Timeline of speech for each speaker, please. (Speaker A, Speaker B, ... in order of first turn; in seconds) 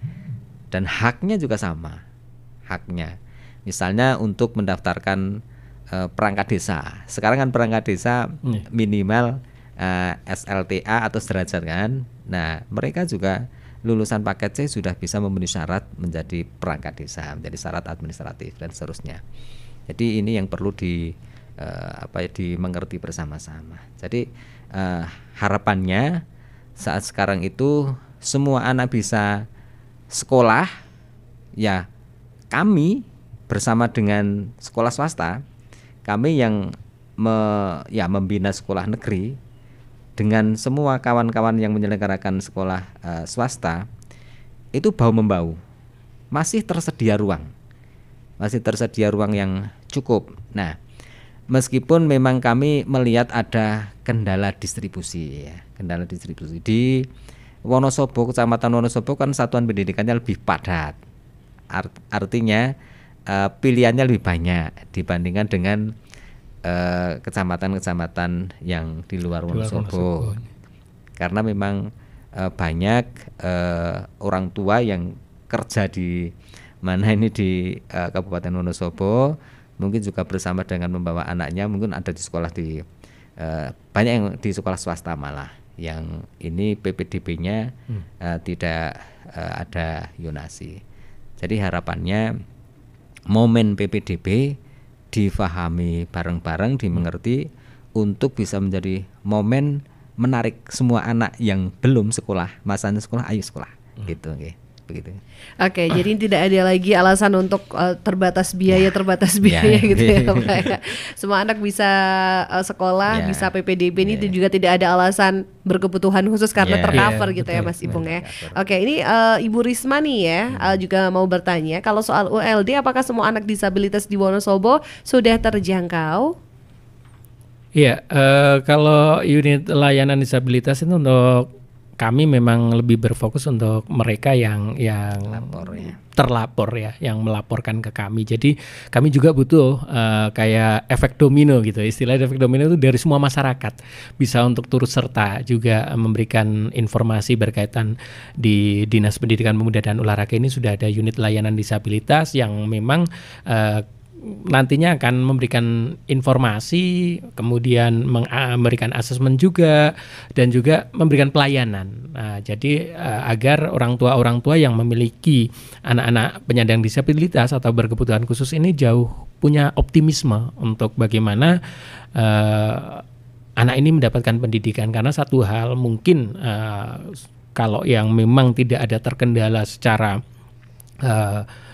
Speaker A: 0.7-2.0, 2.7-3.1, 3.7-5.4, 5.9-19.2, 19.9-26.2, 26.8-29.5, 30.1-30.7, 31.6-31.9, 32.5-35.4, 36.1-39.4, 40.2-43.9, 44.8-45.6, 46.3-47.5, 48.4-50.8, 51.5-57.1, 57.7-61.0, 61.7-62.7, 63.3-65.9, 66.7-70.3, 71.2-82.8, 83.4-90.8, 91.4-92.3, 93.3-94.6, 95.1-105.2, 109.4-110.8, 113.1-113.5, 114.0-114.3, 116.6-118.6, 135.2-136.0
Speaker B: 69.5-70.5, 116.9-117.7, 127.8-131.5, 132.0-171.6, 172.2-173.0, 173.6-180.2, 181.0-181.5
Speaker C: 105.6-126.3